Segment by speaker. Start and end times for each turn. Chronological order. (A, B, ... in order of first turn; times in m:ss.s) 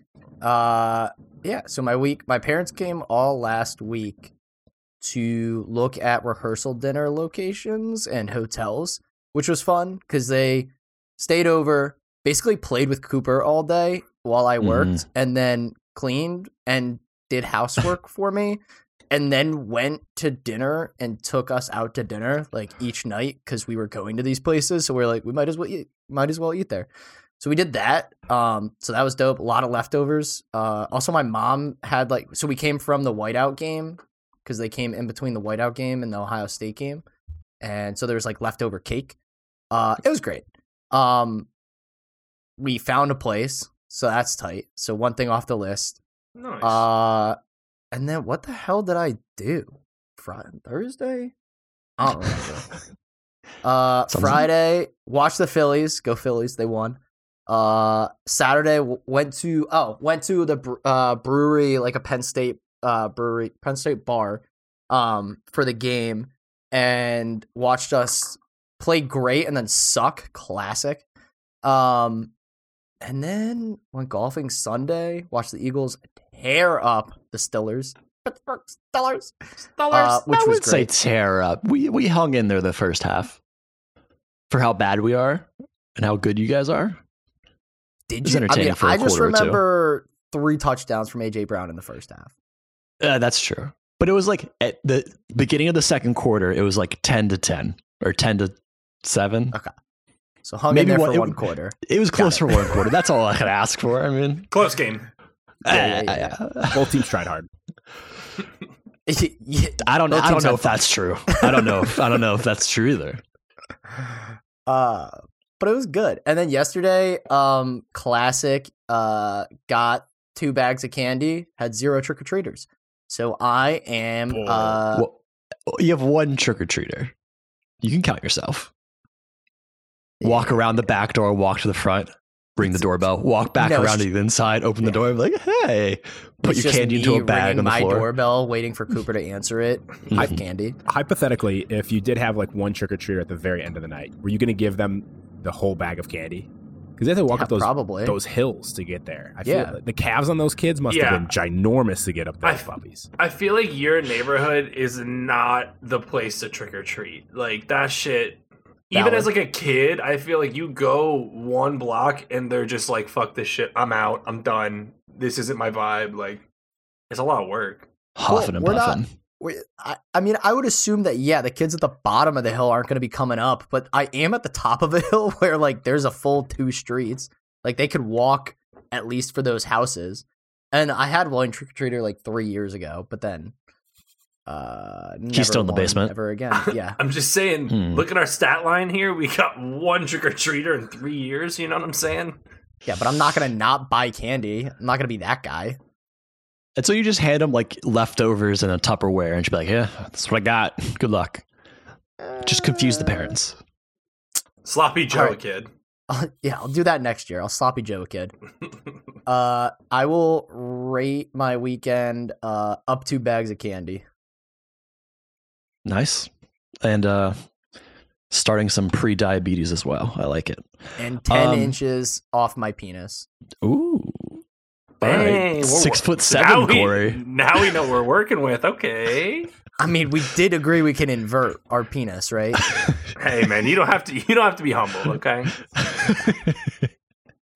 0:00.4-0:04.3 A
0:05.0-0:26.9 A
0:14.6-0:15.0 B
0:27.4-0:37.0 A
0:37.6-0:39.2 A
0:39.7-0:41.5 A
0:42.6-0:46.0 A
0:46.4-0:46.8 C
0:46.6-0:47.4 A
0:47.9-0:51.3 A
0:52.0-0:52.6 A
0:53.6-1:11.0 A
0:54.1-0:54.5 B
1:11.6-1:12.3 A
1:13.0-1:19.3 A
1:19.8-1:20.2 C
1:19.9-1:20.9 A
1:20.3-1:23.4 B
1:24.5-1:27.0 B
1:28.1-1:32.3 A
1:28.2-1:29.6 B
1:33.0-1:39.5 B
1:40.4-1:42.8 A
1:40.7-1:44.5 B
1:44.5-1:45.0 C
1:45.6-1:46.4 A
1:45.6-1:47.0 B
1:46.7-1:47.5 D
1:49.1-1:51.8 A
1:49.8-1:53.2 B
1:54.7-2:05.1 A
2:04.3-2:04.8 D
2:05.7-2:07.1 B
2:07.8-2:08.7 B
2:10.2-2:10.6 A
2:10.2-2:18.1 B
2:12.6-2:12.9 A
2:13.6-2:14.1 A
2:16.4-2:20.8 A
2:20.2-2:33.1 D
2:27.3-2:28.2 A
2:29.4-2:29.7 A
2:30.9-2:31.3 C
2:33.2-2:46.4 C
2:38.9-2:39.3 A
2:47.1-2:47.9 C
2:48.2-2:49.1 B
2:48.3-3:03.5 A
3:04.5-3:07.0 A
3:05.3-3:06.1 B
3:06.5-3:12.4 C
3:07.7-3:08.1 B
3:12.8-3:15.8 A
3:16.8-3:21.4 B
3:22.4-3:23.6 B
3:24.6-3:25.7 C
3:25.1-3:25.4 A
3:26.1-3:28.3 A
3:29.2-3:34.0 A
3:35.8-3:36.3 B
3:36.8-3:37.4 B
3:38.3-3:40.6 B
3:41.0-3:43.2 A
3:41.3-3:41.7 B
3:43.6-3:44.4 B
3:45.0-3:47.2 B
3:45.0-3:49.5 C
3:49.8-3:52.7 A
3:53.2-3:55.5 C
3:55.9-3:56.8 B